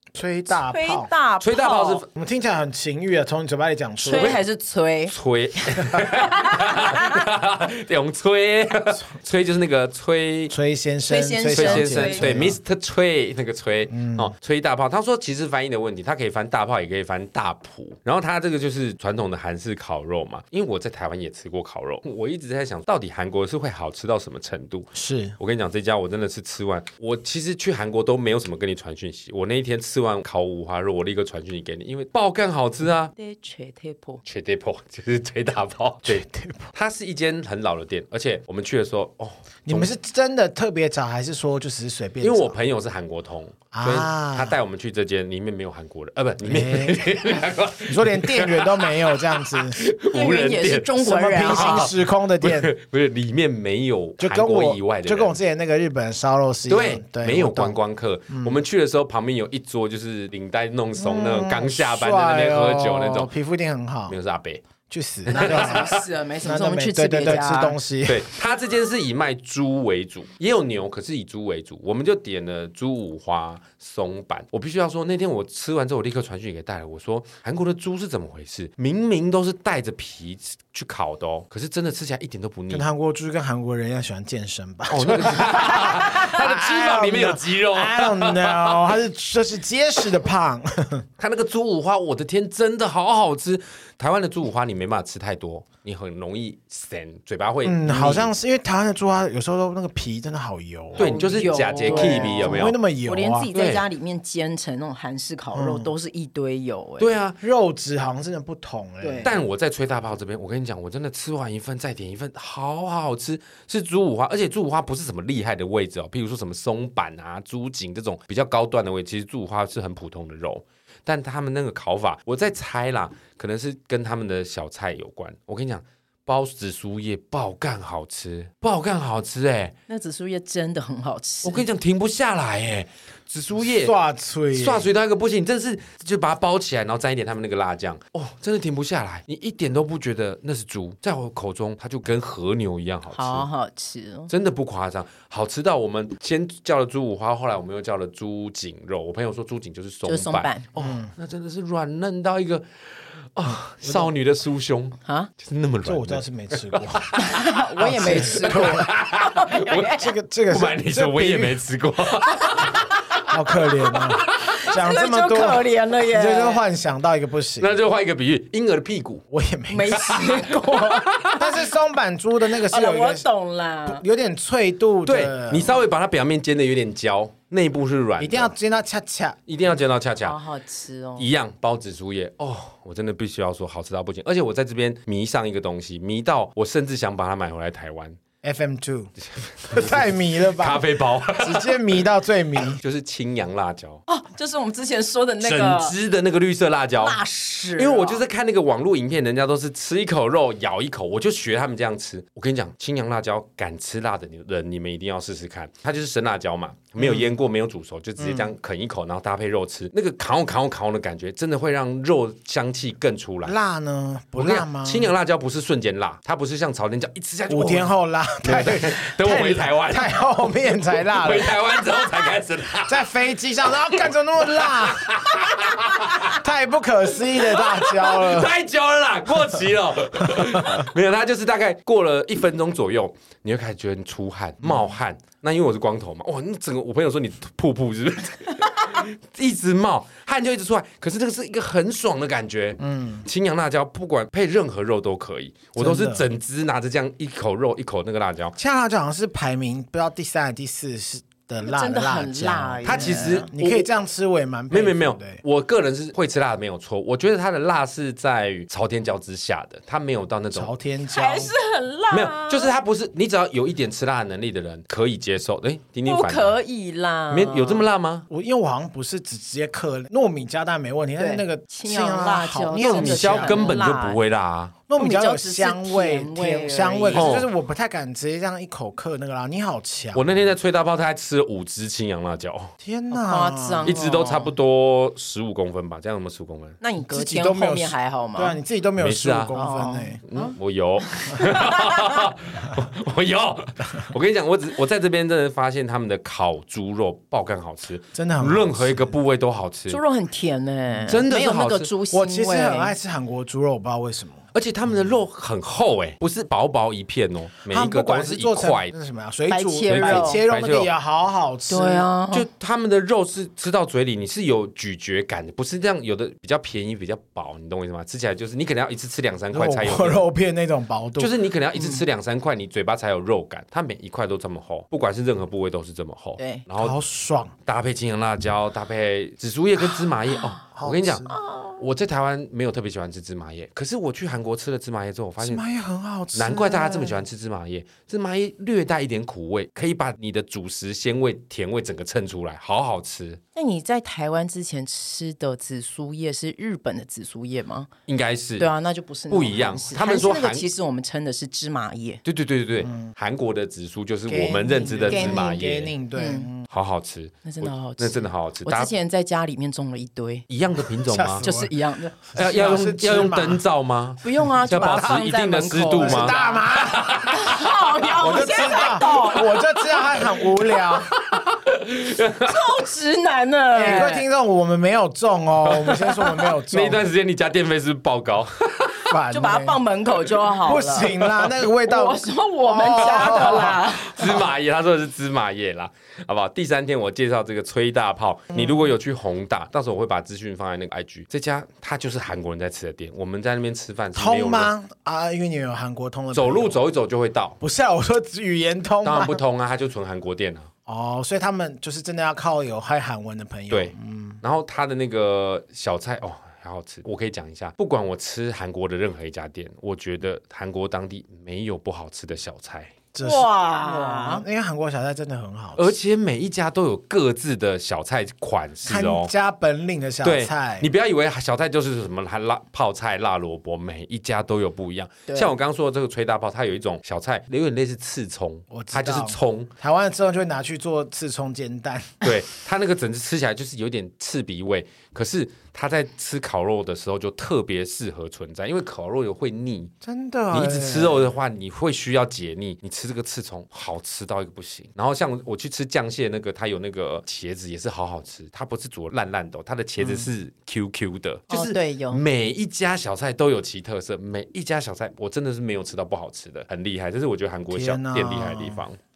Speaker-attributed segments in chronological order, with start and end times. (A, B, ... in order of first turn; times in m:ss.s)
0:00.1-0:01.1 A
0:00.5-0:02.0 B
0:01.4-0:02.1 C
0:02.1-0:04.4 A
0:04.0-0:05.1 B
0:04.1-0:04.4 C
0:05.1-0:10.5 C
0:06.0-0:07.2 B
0:10.5-0:12.6 A
0:11.1-0:12.3 B
0:11.5-0:33.1 C
0:13.9-0:14.3 A
0:24.9-0:25.4 A
0:33.2-0:34.2 B
0:34.2-0:39.9 C
0:36.0-0:36.7 A
0:39.6-0:42.6 A
0:42.2-0:55.3 C
0:43.7-0:44.6 A
0:46.4-0:49.9 A
0:50.1-0:51.9 B
0:51.0-0:52.7 A
0:54.2-0:57.8 A
0:56.7-1:03.3 C
0:58.3-0:58.6 A
1:01.0-1:04.2 A
1:04.1-1:04.6 C
1:04.9-1:08.3 A
1:05.3-1:06.0 C
1:05.3-1:07.8 B
1:08.0-1:22.8 C
1:22.7-1:31.0 A
1:24.9-1:28.9 C
1:31.2-1:38.3 C
1:37.6-1:43.5 A
1:41.0-1:42.8 C
1:41.0-1:47.1 B
1:43.5-1:43.8 C
1:45.5-1:45.9 A
1:47.0-1:47.4 C
1:47.4-1:49.4 A
1:49.0-1:49.3 B
1:49.2-2:09.7 C
2:09.9-2:11.6 B
2:11.4-2:13.9 C
2:13.6-2:14.9 A
2:14.5-2:23.5 C
2:23.1-2:24.3 B
2:24.3-2:32.6 C
2:30.0-2:30.6 B
2:30.8-2:31.1 A
2:33.3-2:37.4 C
2:33.8-2:34.1 A
2:35.0-2:35.3 B
2:35.8-2:38.9 A
2:37.1-2:40.1 B
2:37.9-2:40.0 C
2:39.7-2:41.6 A
2:40.5-2:43.2 C
2:42.4-2:42.9 B
2:43.3-2:47.8 A
2:44.3-2:46.6 B
2:47.6-2:49.2 C
2:49.3-2:50.3 A
2:49.7-2:51.6 B
2:49.9-2:51.4 C
2:51.4-2:53.3 A
2:52.6-2:54.0 B
2:53.8-2:55.8 A
2:55.0-2:58.5 C
2:58.2-2:59.4 A
2:59.5-3:00.4 C
3:00.2-3:01.3 B
3:01.2-3:08.2 C
3:08.4-3:09.1 A
3:09.3-3:12.0 C
3:09.7-3:12.8 A
3:12.6-3:14.0 C
3:14.1-3:15.9 B
3:15.4-3:17.2 C
3:17.0-3:18.2 B
3:17.8-3:33.6 C
3:27.0-3:27.3 A
3:28.2-3:28.5 A
3:33.4-3:35.1 A
3:34.4-3:37.9 C
3:37.5-3:42.3 A
3:38.4-3:40.2 C
3:40.8-3:43.1 C
3:42.8-3:48.5 A
3:43.7-3:46.4 C
3:47.3-4:08.5 C
3:50.2-3:50.8 A
3:54.6-3:54.9 A
4:02.8-4:03.2 A
4:05.8-4:06.2 A
4:08.6-4:15.4 A
4:11.6-4:13.5 B
4:12.8-4:13.9 C
4:14.7-4:20.7 C
4:20.5-4:21.5 A
4:21.1-4:22.7 B
4:22.1-4:26.5 C
4:26.0-4:27.8 B
4:27.3-4:28.3 C
4:28.3-4:33.8 A
4:31.2-4:34.2 B
4:32.8-4:34.8 C
4:34.9-4:40.4 A
4:35.0-4:37.4 B
4:37.1-4:37.5 C
4:40.1-4:42.7 C
4:42.8-4:43.9 A
4:43.1-4:44.5 B
4:43.8-4:46.8 C
4:46.8-4:48.6 B
4:47.1-4:50.2 A
4:49.0-4:49.6 C
4:49.5-4:52.3 B
4:50.3-5:00.0 C
4:58.1-4:59.1 A
4:59.9-5:02.9 B
5:01.1-5:01.9 C
5:02.1-5:04.4 A
5:04.5-5:08.9 C
5:07.7-5:12.1 A
5:09.5-5:10.4 B
5:09.9-5:10.9 C
5:11.7-5:12.5 B
5:12.3-5:20.2 C
5:19.5-5:21.3 A
5:21.2-5:27.0 C
5:26.4-5:26.6 B
5:26.8-5:27.5 A
5:27.6-5:35.6 C
5:30.7-5:31.3 A
5:31.3-5:31.8 B
5:35.4-5:37.2 A
5:36.3-5:43.4 C
5:43.5-5:47.9 B
5:48.1-5:48.7 C
5:48.6-5:52.2 B
5:49.3-5:50.6 C
5:52.2-5:55.9 C
5:52.8-5:53.1 A
5:54.3-5:56.7 A
5:55.1-5:55.6 B
5:56.1-5:56.5 B
5:56.7-5:58.9 C
5:57.4-6:00.4 B
6:00.5-6:01.4 C
6:01.0-6:03.6 A
6:01.4-6:02.2 B
6:02.3-6:09.2 C
6:04.2-6:09.5 B
6:04.7-6:05.2 A
6:05.9-6:07.3 A
6:08.2-6:11.2 A
6:09.9-6:12.6 C
6:12.4-6:14.2 B
6:13.7-6:17.0 A
6:15.7-6:19.2 C
6:19.1-6:19.8 A
6:19.3-6:21.2 B
6:20.6-6:23.9 A
6:21.1-6:21.5 C
6:21.8-6:24.4 B
6:23.0-6:34.7 C
6:28.5-6:28.9 A
6:34.1-6:36.8 A
6:36.3-6:37.6 C
6:37.6-6:39.4 A
6:39.0-6:40.7 C
6:40.9-6:44.4 A
6:43.7-6:52.9 C
6:53.1-6:55.9 A
6:53.2-6:54.4 B
6:55.8-6:59.3 C
6:58.8-7:00.9 A
7:00.2-7:09.7 C
7:08.7-7:12.3 A
7:12.2-7:19.9 C
7:20.0-7:21.3 A
7:20.5-7:39.0 C
7:30.0-7:30.3 A
7:31.5-7:32.2 B
7:37.7-7:38.8 A